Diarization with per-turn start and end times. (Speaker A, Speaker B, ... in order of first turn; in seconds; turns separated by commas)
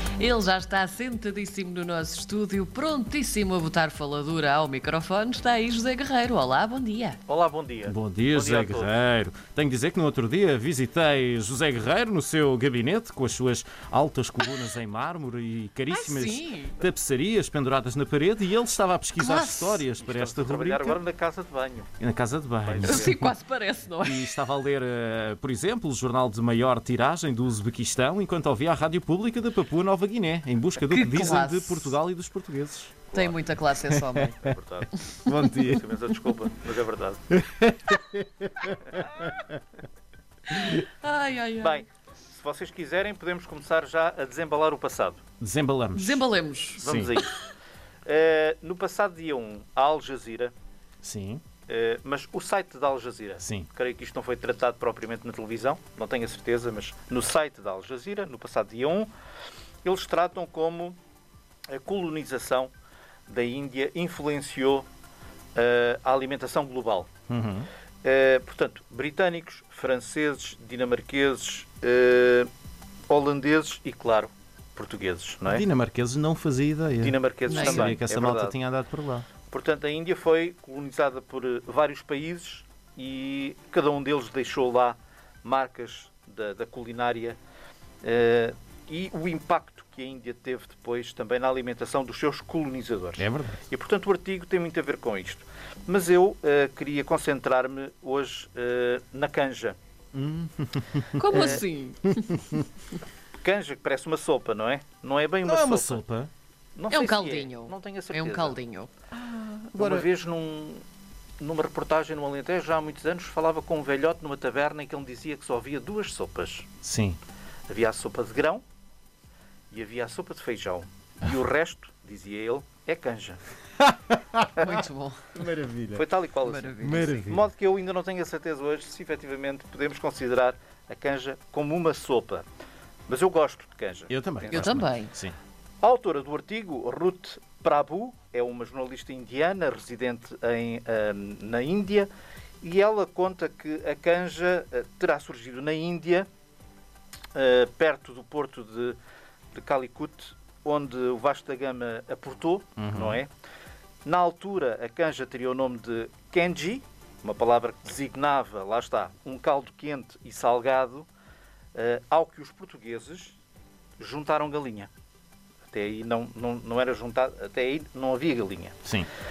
Speaker A: 0.2-7.2, Speaker B: 7.3-8.9, Speaker C: 7.8-21.0, Speaker A: 15.9-16.8, Speaker A: 19.2-19.9, Speaker B: 20.0-21.9, Speaker C: 22.0-23.3, Speaker B: 22.6-23.2, Speaker A: 22.8-24.4, Speaker C: 24.0-33.1, Speaker A: 30.8-31.9, Speaker B: 33.1-33.4, Speaker A: 33.1-34.5, Speaker C: 33.9-34.5, Speaker B: 34.4-34.9, Speaker C: 35.2-35.8, Speaker B: 35.6-37.2, Speaker C: 37.3-39.4, Speaker A: 40.5-41.8, Speaker B: 41.6-45.2, Speaker C: 45.4-46.2, Speaker A: 45.9-46.8, Speaker B: 46.8-47.4, Speaker C: 46.8-47.1, Speaker B: 48.0-50.5, Speaker C: 51.0-51.4, Speaker B: 51.7-59.1, Speaker C: 53.4-53.7, Speaker B: 59.8-61.0, Speaker B: 61.7-62.7, Speaker B: 63.3-64.9, Speaker B: 65.5-67.1, Speaker C: 67.3-67.7, Speaker B: 68.0-72.5, Speaker B: 73.1-75.6, Speaker C: 75.4-79.2, Speaker B: 77.0-78.5, Speaker A: 77.5-78.0, Speaker B: 79.5-87.4, Speaker B: 88.0-99.8, Speaker C: 93.2-93.6, Speaker C: 100.1-101.3, Speaker A: 101.2-102.5, Speaker B: 101.3-101.6, Speaker B: 103.4-106.0, Speaker C: 105.4-106.3, Speaker B: 106.8-108.6, Speaker A: 106.9-108.9, Speaker C: 109.1-110.1, Speaker B: 109.8-110.8, Speaker B: 111.4-116.7, Speaker C: 116.8-117.2, Speaker B: 117.7-118.6, Speaker B: 119.7-123.4, Speaker C: 123.8-124.6, Speaker A: 124.6-125.3, Speaker C: 125.4-126.0, Speaker B: 125.9-132.4, Speaker A: 126.4-127.2, Speaker C: 126.8-127.5, Speaker B: 133.1-134.8, Speaker C: 134.1-135.3, Speaker A: 134.5-135.1, Speaker B: 135.8-142.1, Speaker B: 142.6-146.3, Speaker B: 147.3-149.0, Speaker B: 149.5-153.3, Speaker C: 152.8-153.2, Speaker B: 154.0-161.1, Speaker B: 161.7-163.4, Speaker B: 164.0-164.9, Speaker B: 165.7-168.8